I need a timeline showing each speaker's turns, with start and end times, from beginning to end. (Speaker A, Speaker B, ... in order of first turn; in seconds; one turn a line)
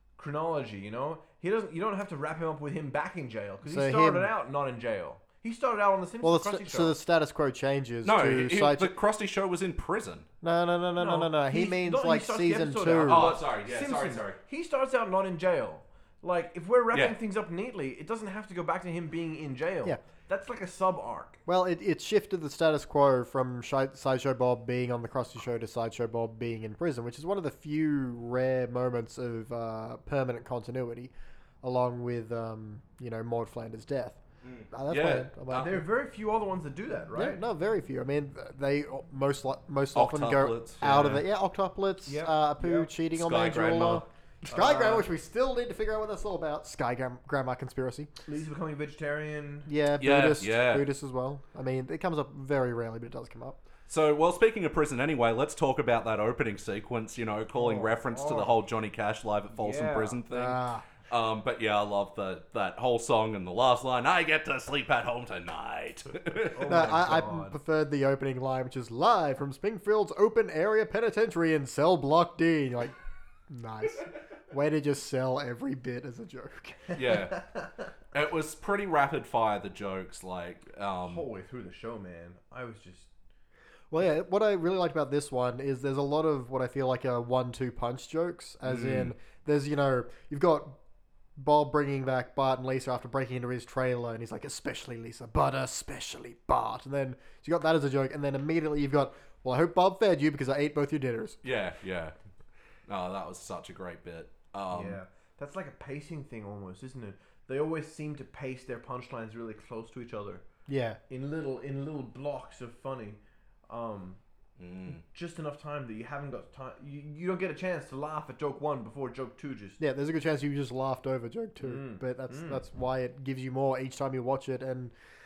Speaker A: 0.2-7.0
Speaker B: 3.6-4.3
Speaker B: 6.2-8.9
Speaker C: 8.0-10.3
Speaker B: 10.4-13.3
Speaker A: 11.0-21.4
Speaker C: 13.1-14.4
Speaker B: 21.4-35.8
Speaker C: 34.4-35.8
Speaker A: 35.5-37.4
Speaker B: 37.1-48.1
Speaker C: 39.9-41.2
Speaker A: 42.0-42.9
Speaker C: 43.1-44.0
Speaker A: 44.5-45.1
Speaker A: 48.2-49.7
Speaker B: 49.7-53.6
Speaker C: 50.0-50.9
Speaker C: 53.9-66.6
Speaker A: 57.5-58.5
Speaker A: 59.5-60.2
Speaker B: 60.3-60.9
Speaker A: 66.5-67.5
Speaker B: 66.7-73.0
Speaker B: 73.5-77.0
Speaker C: 76.9-77.5
Speaker C: 78.1-81.2
Speaker A: 81.0-83.1
Speaker B: 83.9-90.8
Speaker C: 88.6-89.1
Speaker B: 91.4-101.4
Speaker C: 101.4-102.1
Speaker C: 102.9-105.0
Speaker A: 104.7-110.4
Speaker B: 110.7-111.0
Speaker A: 111.1-114.2
Speaker C: 114.6-115.0
Speaker A: 115.0-119.8
Speaker B: 119.8-124.9
Speaker A: 121.6-122.6